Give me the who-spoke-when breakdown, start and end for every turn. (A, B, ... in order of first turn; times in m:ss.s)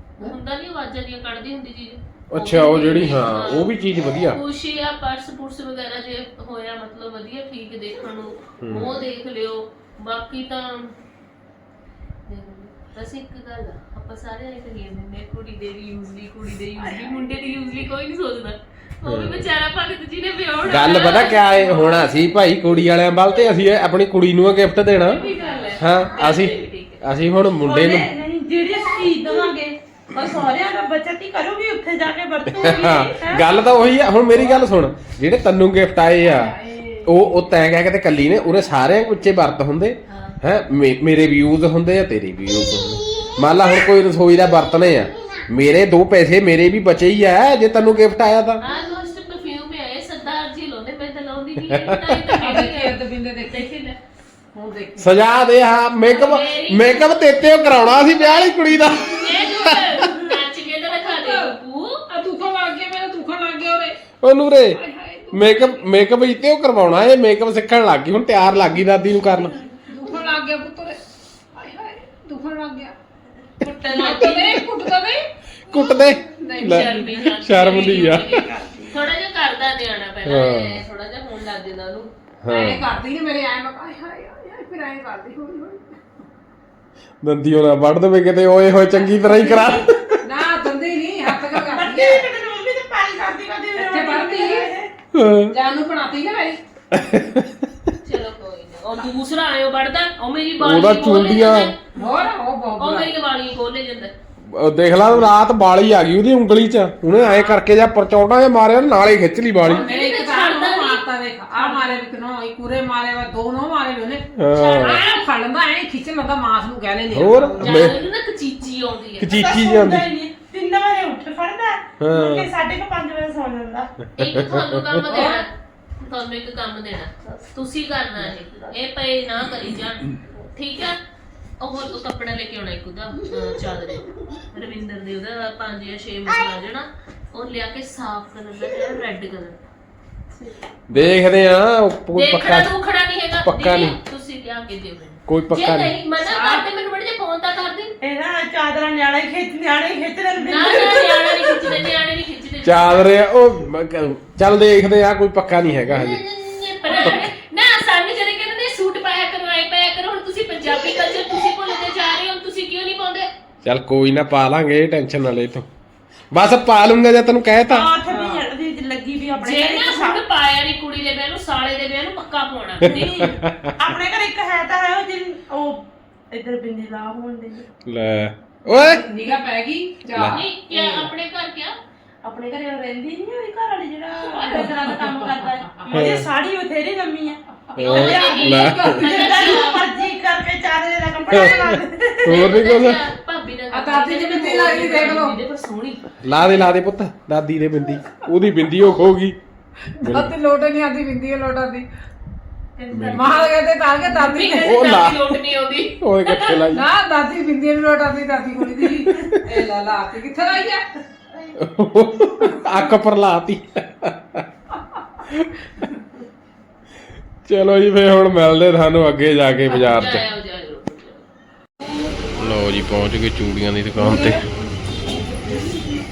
0:00.2-0:10.9 A
0:02.3-0:04.4 B
0:08.6-0:09.0 B
0:12.3-0:22.1 A
0:19.0-0:19.4 B
0:20.6-0:25.2 B
0:25.0-0:27.0 A
0:25.8-0:28.1 B
0:27.6-0:33.6 C
0:32.5-0:48.6 B
0:36.2-0:37.1 D
0:40.1-0:40.4 A
0:48.6-0:54.0 A
0:51.7-0:52.2 B
0:52.4-0:53.7 D
0:54.5-0:55.2 D
0:55.0-1:00.2 B
0:56.0-1:02.0 A
1:00.9-1:01.6 D
1:02.1-1:04.0 D
1:04.2-1:04.8 B
1:04.7-1:06.0 D
1:05.3-1:09.6 B
1:09.8-1:11.0 D
1:11.5-1:12.9 D
1:13.6-1:14.6 A
1:13.9-1:17.4 D
1:15.6-1:18.3 B
1:16.6-1:22.1 A
1:17.6-1:19.0 C
1:20.2-1:20.8 B
1:22.4-1:22.9 B
1:22.5-1:25.9 D
1:27.2-1:30.2 B
1:29.4-1:29.7 D
1:30.2-1:32.3 D
1:31.6-1:34.9 C
1:33.7-1:34.7 D
1:35.1-1:35.5 B
1:35.5-1:36.6 D
1:36.9-1:37.9 B
1:38.0-1:42.0 A
1:40.6-1:41.7 B
1:41.9-1:43.1 D
1:42.8-1:44.1 A
1:44.5-1:49.9 B
1:47.1-1:47.6 A
1:49.6-1:54.2 D
1:49.7-1:51.0 A
1:51.5-1:51.9 A
1:54.3-1:55.0 B
1:54.5-1:55.2 A
1:54.8-1:58.0 D
1:57.1-1:58.0 B
1:57.6-1:59.4 A
1:59.2-2:00.1 B
1:59.3-2:03.9 C
2:02.0-2:02.5 B
2:04.2-2:05.1 B
2:04.2-2:05.5 A
2:05.1-2:05.4 C
2:06.0-2:11.0 A
2:07.2-2:07.5 C
2:08.2-2:08.8 C
2:11.6-2:19.6 A
2:20.3-2:20.6 C
2:20.9-2:22.7 B
2:22.1-2:27.9 A
2:23.4-2:24.0 B
2:25.3-2:25.9 B
2:26.2-2:26.6 D
2:28.0-2:31.7 C
2:30.4-2:33.1 A
2:32.6-2:36.2 B
2:35.9-2:43.3 A
2:36.9-2:37.3 B
2:43.6-2:45.7 B
2:46.3-2:47.9 B
2:47.7-2:50.2 C
2:48.0-2:48.5 D
2:49.4-2:53.3 A
2:52.8-2:53.7 B
2:52.8-2:57.6 C
2:57.8-2:59.0 B
2:58.7-3:01.0 D
3:00.1-3:00.4 B
3:00.2-3:01.8 A
3:00.8-3:01.0 C
3:02.2-3:12.5 C
3:04.3-3:05.1 D
3:05.7-3:06.0 D
3:05.9-3:06.3 B
3:07.7-3:09.1 B
3:07.8-3:09.8 A
3:08.1-3:09.8 D
3:11.3-3:13.0 B
3:12.3-3:16.0 A
3:13.7-3:15.4 D
3:16.2-3:19.4 B
3:19.9-3:21.9 D
3:20.0-3:20.3 B
3:22.8-3:26.6 A
3:22.9-3:23.3 B
3:23.1-3:24.8 D
3:24.6-3:25.4 B
3:26.0-3:26.8 B
3:26.7-3:30.9 D
3:29.0-3:29.4 B
3:31.6-3:34.4 B
3:35.2-3:35.5 B
3:37.4-3:40.2 B
3:39.6-3:41.2 A
3:42.4-3:44.4 B